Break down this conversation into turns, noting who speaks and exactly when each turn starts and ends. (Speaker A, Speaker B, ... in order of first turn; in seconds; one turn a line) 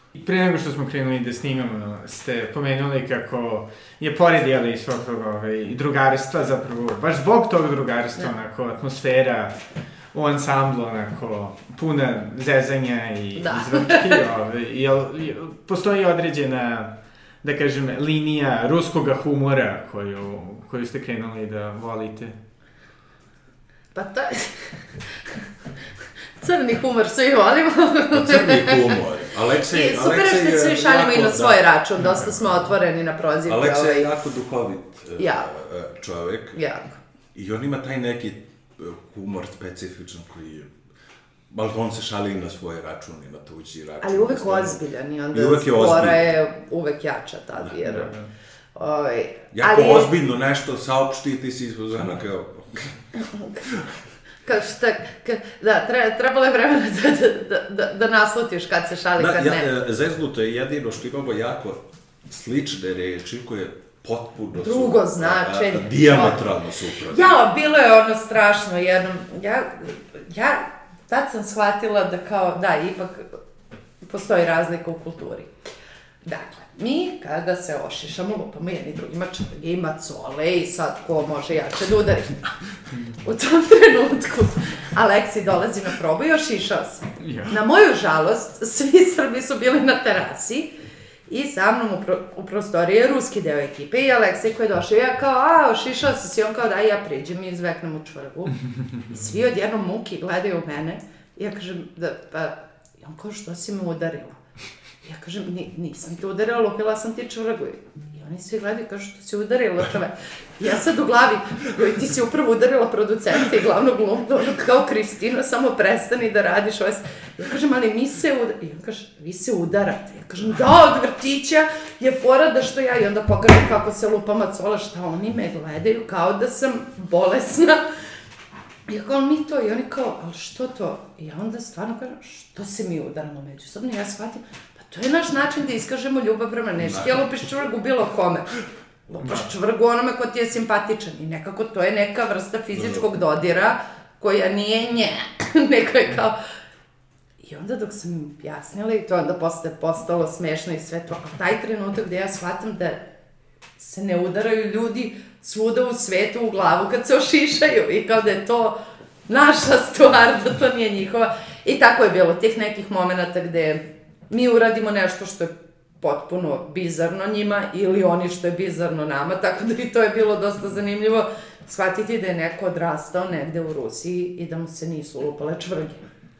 Speaker A: 0.1-9.6
Speaker A: 10.1-22.4
Speaker B: 13.4-14.2
Speaker B: 23.9-25.5
Speaker B: 26.4-29.1
Speaker C: 28.1-31.6
Speaker B: 29.6-34.1
Speaker A: 32.0-32.6
Speaker C: 33.5-36.6
Speaker B: 35.2-35.5
Speaker B: 36.6-37.0
Speaker C: 37.3-40.7
Speaker C: 41.5-44.8
Speaker B: 44.0-48.2
Speaker C: 45.3-46.3
Speaker A: 47.8-48.3
Speaker B: 48.8-50.1
Speaker C: 49.5-53.0
Speaker B: 53.2-53.6
Speaker C: 53.6-53.9
Speaker B: 54.5-59.7
Speaker C: 59.2-67.3
Speaker B: 64.6-66.4
Speaker B: 67.1-73.4
Speaker B: 74.0-75.5
Speaker B: 76.2-82.5
Speaker B: 83.1-90.7
Speaker A: 87.2-87.5
Speaker B: 91.3-104.4
Speaker B: 105.0-127.8
Speaker B: 128.9-146.4
Speaker C: 136.8-137.3
Speaker A: 139.2-139.5
Speaker C: 142.7-143.1
Speaker B: 147.4-153.0
Speaker B: 153.8-158.8
Speaker B: 159.3-176.0